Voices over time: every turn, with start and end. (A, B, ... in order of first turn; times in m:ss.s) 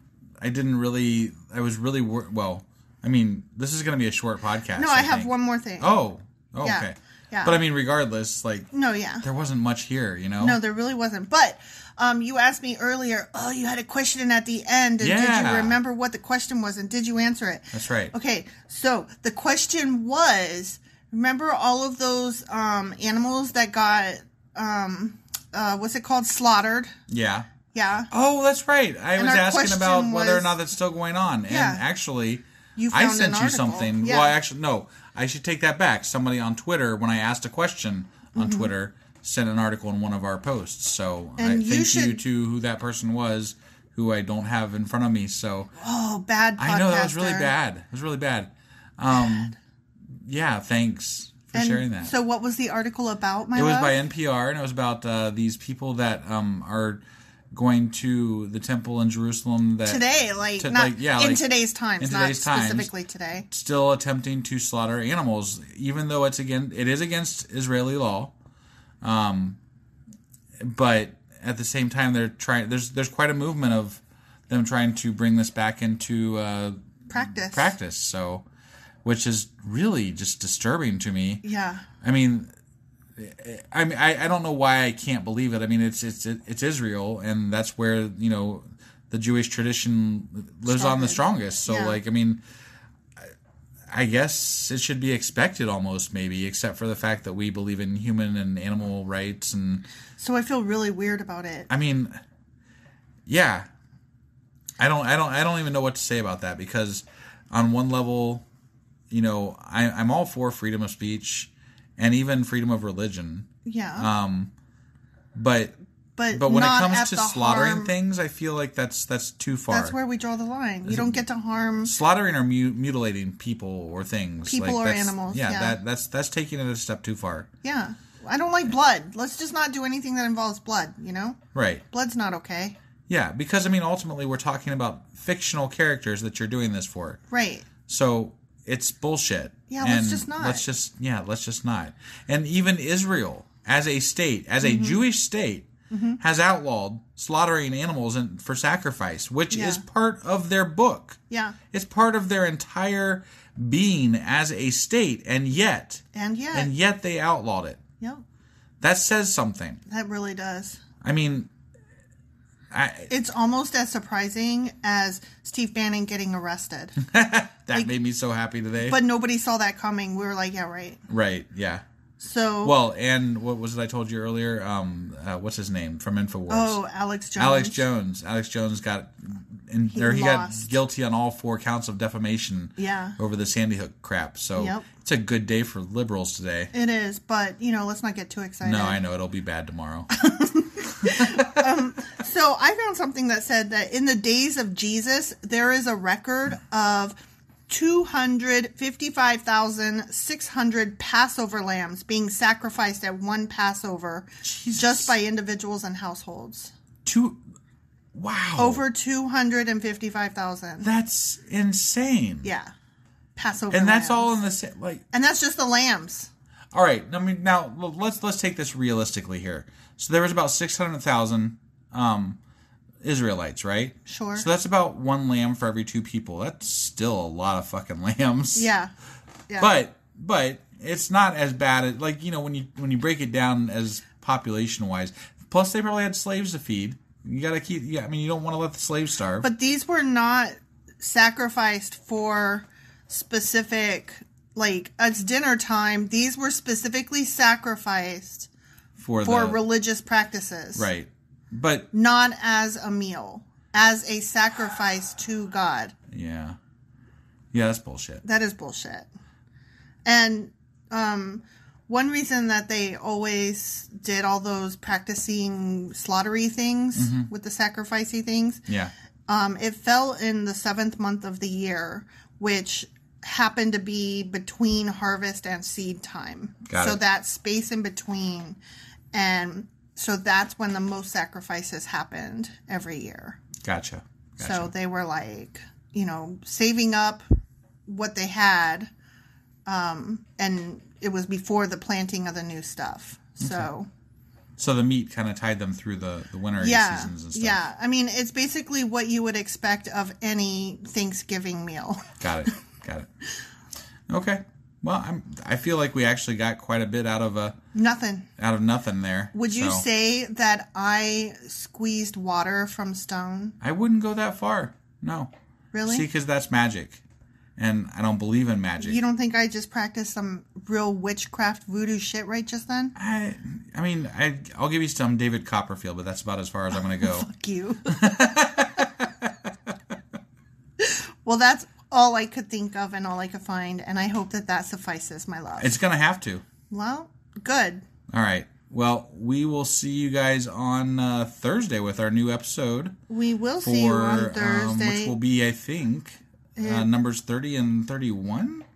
0:00.4-0:08.7 A
0:04.7-0:06.0 B
0:06.6-0:07.6 B
0:08.7-0:09.3 B
0:09.2-0:10.6 A
0:10.4-0:26.9 B
0:15.0-0:15.8 A
0:17.7-0:18.1 A
0:27.1-0:27.5 A
0:27.7-0:28.1 B
0:28.1-0:45.7 A
0:29.2-0:30.6 B
0:31.5-0:31.8 B
0:32.8-0:34.4 B
0:38.3-0:38.7 B
0:41.4-0:42.2 B
0:45.8-0:47.5 B
0:46.6-0:49.6 A
0:49.1-0:49.5 B
0:50.2-0:52.1 A
0:51.5-0:54.0 B
0:53.6-1:00.1 A
0:59.8-1:03.5 B
1:00.6-1:02.9 A
1:03.5-1:08.3 A
1:09.0-1:09.6 A
1:10.6-1:18.5 A
1:17.1-1:17.8 B
1:19.0-1:21.4 A
1:21.4-1:21.9 B
1:22.0-1:22.5 A
1:23.2-1:32.4 A
1:30.6-1:32.0 B
1:33.9-1:39.9 A
1:40.2-1:41.7 B
1:41.7-1:42.2 A
1:43.3-1:43.7 A
1:44.8-1:48.4 A
1:49.1-1:54.5 A
1:53.6-1:54.1 B
1:55.4-1:55.8 A
1:56.2-1:57.9 B
1:56.3-2:00.0 A
1:59.7-2:01.9 B
2:00.9-2:01.2 A
2:01.8-2:07.5 A
2:04.5-2:05.8 B
2:07.6-2:11.4 B
2:11.5-2:11.8 A
2:11.9-2:12.8 B
2:13.1-2:17.2 A
2:17.3-2:17.7 B
2:17.8-2:31.2 A
2:19.7-2:20.7 B
2:24.6-2:25.0 B
2:25.9-2:26.2 B
2:29.5-2:29.8 B
2:31.3-2:31.6 B
2:31.7-2:36.0 A
2:36.1-2:36.7 B
2:36.5-2:37.8 A
2:38.8-2:39.8 A
2:39.9-2:40.8 B
2:41.0-2:41.5 A
2:42.7-2:43.1 A
2:43.1-2:47.0 B
2:47.1-2:49.0 A
2:48.8-2:51.0 B
2:51.1-2:51.8 A
2:52.2-2:52.8 B
2:52.6-2:56.8 A
2:56.5-2:57.8 B
2:57.4-3:06.7 A
2:59.9-3:00.8 B
3:02.8-3:03.2 B
3:04.6-3:04.9 B
3:06.7-3:09.0 B
3:08.6-3:10.1 A
3:10.2-3:17.2 B
3:11.2-3:11.6 A
3:17.7-3:26.7 B
3:24.4-3:25.2 A
3:27.0-3:27.4 A
3:28.1-3:28.8 A
3:28.6-3:30.9 B
3:30.8-3:32.5 A
3:32.4-3:32.7 B
3:33.4-3:34.4 B
3:33.7-3:35.0 A
3:35.1-3:36.3 B
3:36.7-3:42.4 A
3:43.0-3:48.7 A
3:44.1-3:44.5 B
3:48.6-3:48.9 B
3:49.6-3:59.5 A
3:59.4-4:08.5 B
4:09.0-4:09.6 A
4:09.2-4:10.9 B
4:10.8-4:11.9 A
4:11.9-4:15.9 B
4:16.1-4:16.6 A
4:17.5-4:18.2 A
4:18.2-4:19.1 B
4:20.0-4:28.6 B
4:27.0-4:27.3 A
4:28.7-4:28.9 A
4:29.3-4:38.6 B
4:36.7-4:37.0 A
4:39.1-4:43.4 B
4:43.6-4:44.7 A
4:44.4-4:47.2 B
4:47.9-4:48.9 B
4:49.7-4:53.9 B
4:53.4-4:53.7 A
4:54.6-4:57.6 A
4:56.6-5:02.0 B
5:02.2-5:03.1 A
5:04.1-5:07.6 A
5:07.7-5:08.3 B
5:08.4-5:09.9 A
5:09.3-5:13.6 B
5:13.6-5:15.3 A
5:15.7-5:16.1 B
5:15.9-5:17.0 A
5:17.6-5:19.0 A
5:18.8-5:23.0 B
5:23.0-5:27.3 A
5:26.8-5:28.7 B
5:27.9-5:29.3 A
5:30.8-5:35.8 B
5:35.6-5:36.4 A
5:36.7-5:37.8 B
5:38.1-5:43.0 A
5:43.1-5:45.2 B
5:43.6-5:48.6 A
5:46.6-5:46.9 B